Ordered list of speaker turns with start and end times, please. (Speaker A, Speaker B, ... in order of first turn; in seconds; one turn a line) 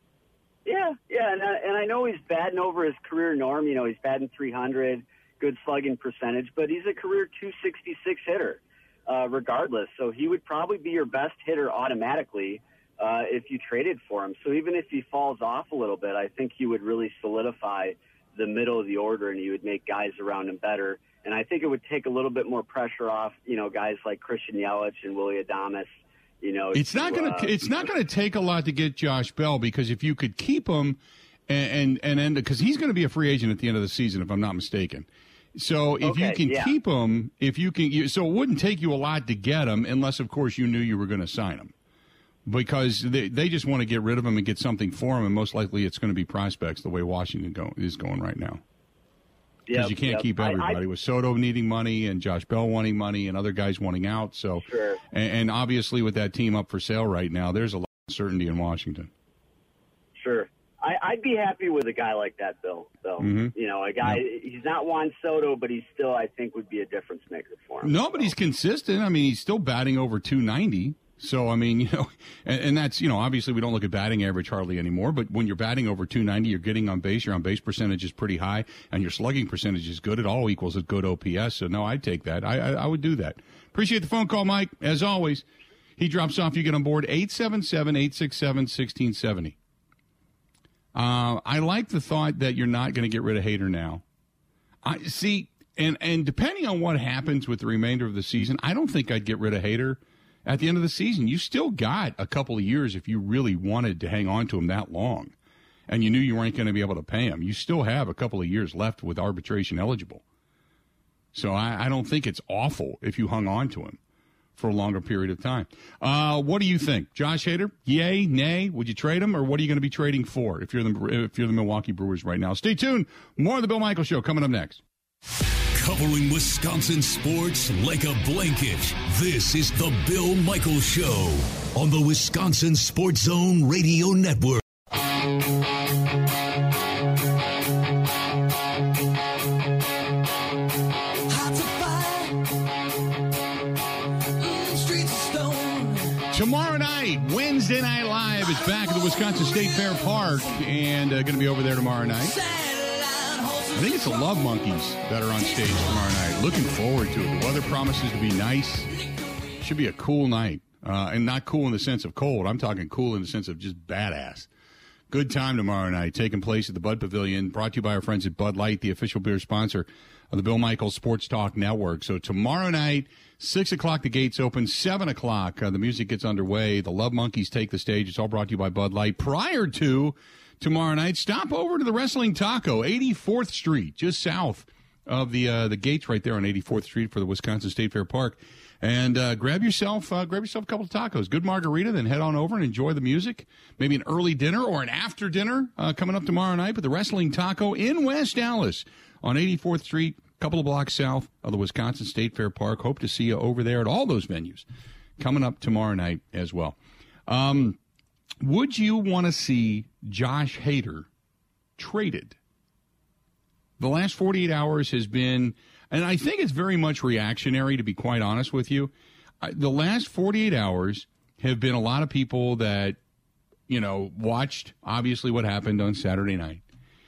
Speaker A: 0.6-27.9
Speaker B: 26.7-41.7
Speaker A: 36.0-36.7
Speaker B: 42.4-48.6
Speaker A: 49.7-50.8
Speaker B: 49.7-59.1
Speaker A: 54.6-55.0
Speaker A: 60.2-68.3
Speaker B: 63.2-64.2
Speaker B: 67.8-85.4
Speaker B: 86.0-89.5
Speaker B: 90.9-94.0
Speaker B: 94.8-105.3
Speaker B: 105.9-110.2
Speaker B: 111.3-114.0
Speaker B: 114.5-124.8
Speaker C: 125.7-134.6
Speaker D: 141.3-142.6
Speaker D: 144.4-146.2
Speaker B: 146.3-152.3
Speaker D: 148.4-150.6
Speaker D: 152.1-154.5
Speaker B: 153.7-158.9
Speaker D: 155.3-156.6
Speaker D: 159.0-159.5
Speaker B: 159.6-164.5
Speaker B: 165.1-204.7
Speaker B: 205.2-207.8
Speaker B: 208.4-211.1
Speaker B: 211.8-212.3
Speaker B: 213.8-223.0
Speaker B: 223.7-226.6